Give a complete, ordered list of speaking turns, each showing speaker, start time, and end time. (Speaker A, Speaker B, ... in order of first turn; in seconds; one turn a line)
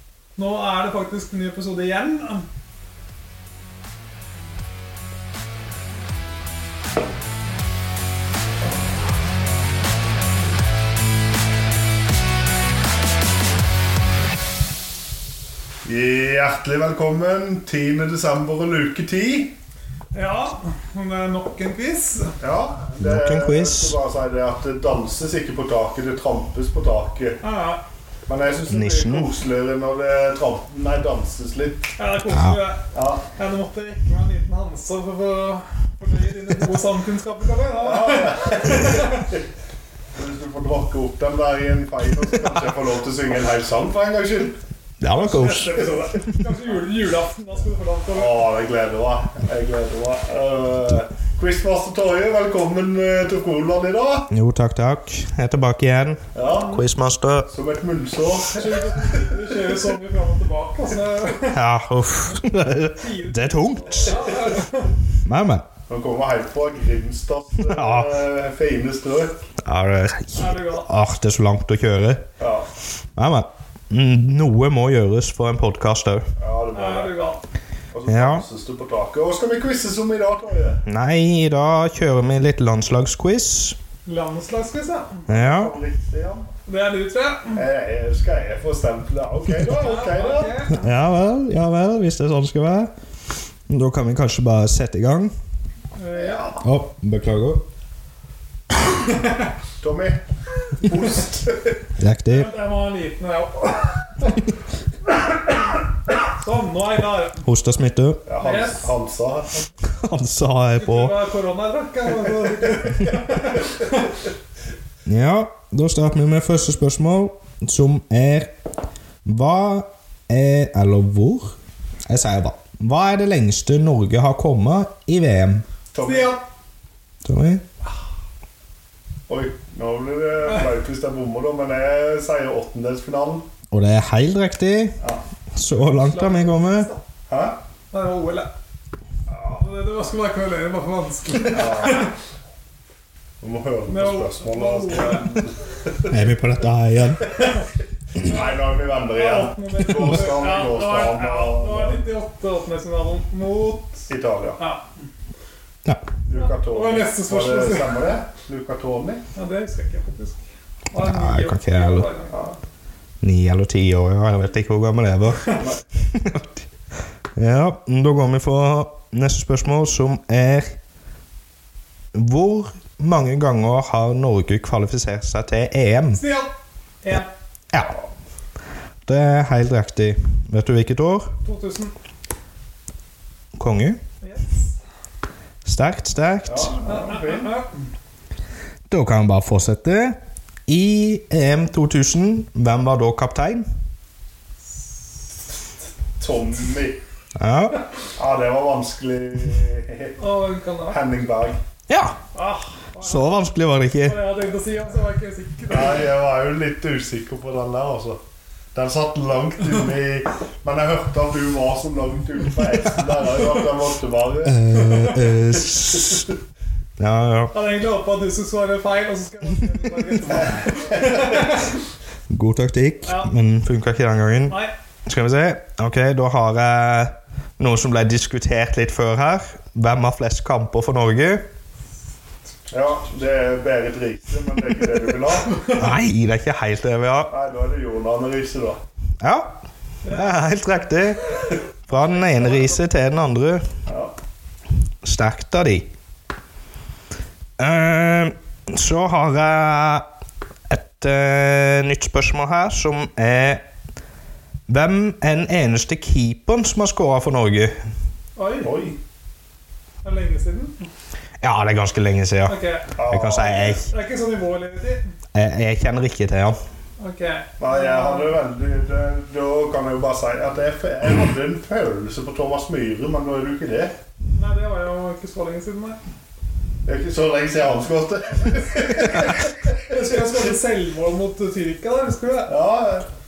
Speaker A: 0.4-2.5
Speaker B: 15.8-19.5
Speaker A: 20.1-22.4
Speaker B: 22.4-27.4
Speaker C: 23.0-23.9
Speaker A: 27.4-27.8
Speaker B: 28.3-31.9
Speaker C: 28.7-29.3
Speaker A: 32.0-39.3
Speaker C: 32.3-32.6
Speaker B: 32.9-33.2
Speaker B: 37.8-39.4
Speaker B: 40.1-44.6
Speaker C: 45.0-45.8
Speaker A: 45.1-48.5
Speaker B: 48.1-54.3
Speaker C: 54.3-57.5
Speaker B: 56.3-56.7
Speaker A: 56.5-56.8
Speaker B: 57.5-59.4
Speaker A: 58.5-61.6
Speaker C: 61.5-64.2
Speaker A: 63.0-65.0
Speaker C: 65.3-65.7
Speaker B: 65.9-69.4
Speaker C: 67.6-68.1
Speaker C: 69.6-72.2
Speaker A: 70.3-70.9
Speaker B: 72.4-72.7
Speaker C: 73.2-76.3
Speaker B: 76.4-77.2
Speaker A: 76.7-77.4
Speaker B: 77.9-80.8
Speaker C: 78.1-78.4
Speaker C: 80.9-83.8
Speaker A: 84.1-85.3
Speaker C: 85.3-85.8
Speaker B: 85.3-86.5
Speaker A: 86.6-87.7
Speaker B: 87.5-90.6
Speaker A: 89.6-90.9
Speaker C: 90.7-92.9
Speaker C: 93.7-95.3
Speaker A: 96.0-96.6
Speaker B: 96.1-96.5
Speaker C: 96.6-97.6
Speaker A: 99.0-99.5
Speaker B: 99.8-100.2
Speaker B: 100.8-101.8
Speaker C: 102.0-102.5
Speaker A: 102.3-104.4
Speaker A: 106.3-107.4
Speaker C: 107.4-108.2
Speaker B: 108.2-109.7
Speaker A: 108.4-109.0
Speaker C: 109.8-111.2
Speaker A: 110.8-114.1
Speaker C: 115.1-118.5
Speaker C: 119.2-121.6
Speaker C: 122.1-125.7
Speaker B: 125.9-126.4
Speaker A: 126.0-126.5
Speaker C: 127.2-127.6
Speaker B: 129.3-133.5
Speaker C: 133.7-135.0
Speaker C: 135.6-136.9
Speaker A: 135.8-137.0
Speaker B: 137.3-137.6
Speaker A: 137.9-138.5
Speaker B: 139.3-139.6
Speaker A: 139.5-142.2
Speaker B: 141.5-142.1
Speaker B: 143.4-146.2
Speaker A: 143.9-145.5
Speaker C: 146.1-147.3
Speaker A: 147.3-147.7
Speaker A: 148.2-154.8
Speaker B: 148.3-152.0
Speaker B: 154.1-154.6
Speaker B: 156.3-159.2
Speaker A: 156.3-158.2
Speaker A: 159.3-162.4
Speaker C: 160.9-162.1
Speaker B: 162.3-162.6
Speaker C: 163.2-165.5
Speaker A: 165.3-165.6
Speaker B: 165.5-165.8
Speaker C: 166.1-166.6
Speaker C: 167.4-170.8
Speaker C: 172.1-176.2
Speaker A: 176.1-177.3
Speaker C: 179.1-181.3
Speaker A: 181.4-181.9
Speaker C: 183.6-184.0
Speaker A: 184.2-184.8
Speaker C: 185.7-186.8
Speaker B: 186.4-187.6
Speaker A: 186.8-187.8
Speaker C: 188.9-190.2
Speaker C: 190.7-193.7
Speaker B: 196.2-197.0
Speaker C: 197.4-197.8
Speaker B: 198.2-200.2
Speaker A: 200.2-201.1
Speaker B: 200.9-201.6
Speaker C: 201.9-202.2
Speaker A: 202.3-203.4
Speaker C: 203.0-204.2
Speaker A: 204.0-206.1
Speaker B: 205.7-208.2
Speaker B: 208.7-214.6
Speaker C: 214.4-216.3
Speaker A: 214.7-215.2
Speaker B: 215.5-216.3
Speaker C: 217.0-217.5
Speaker A: 217.5-221.8
Speaker B: 220.2-221.4
Speaker C: 222.3-231.4
Speaker A: 223.0-223.3
Speaker A: 224.5-224.7
Speaker B: 232.7-235.6
Speaker A: 235.5-235.8
Speaker C: 235.8-237.3
Speaker B: 237.3-238.8
Speaker C: 239.2-239.5
Speaker A: 240.0-240.3
Speaker C: 240.1-241.2
Speaker C: 241.9-243.6
Speaker A: 242.4-242.7
Speaker B: 243.9-244.1
Speaker C: 245.0-245.9
Speaker C: 247.6-250.1
Speaker C: 250.7-253.6
Speaker C: 254.7-257.8
Speaker A: 258.4-258.9
Speaker B: 258.6-259.0
Speaker A: 260.0-260.9
Speaker C: 261.4-263.9
Speaker A: 262.5-265.1
Speaker B: 263.0-263.6
Speaker C: 265.3-266.6
Speaker A: 267.0-268.4
Speaker B: 267.6-273.9
Speaker A: 274.4-276.0
Speaker B: 276.9-280.6
Speaker A: 279.9-282.6
Speaker B: 282.5-283.1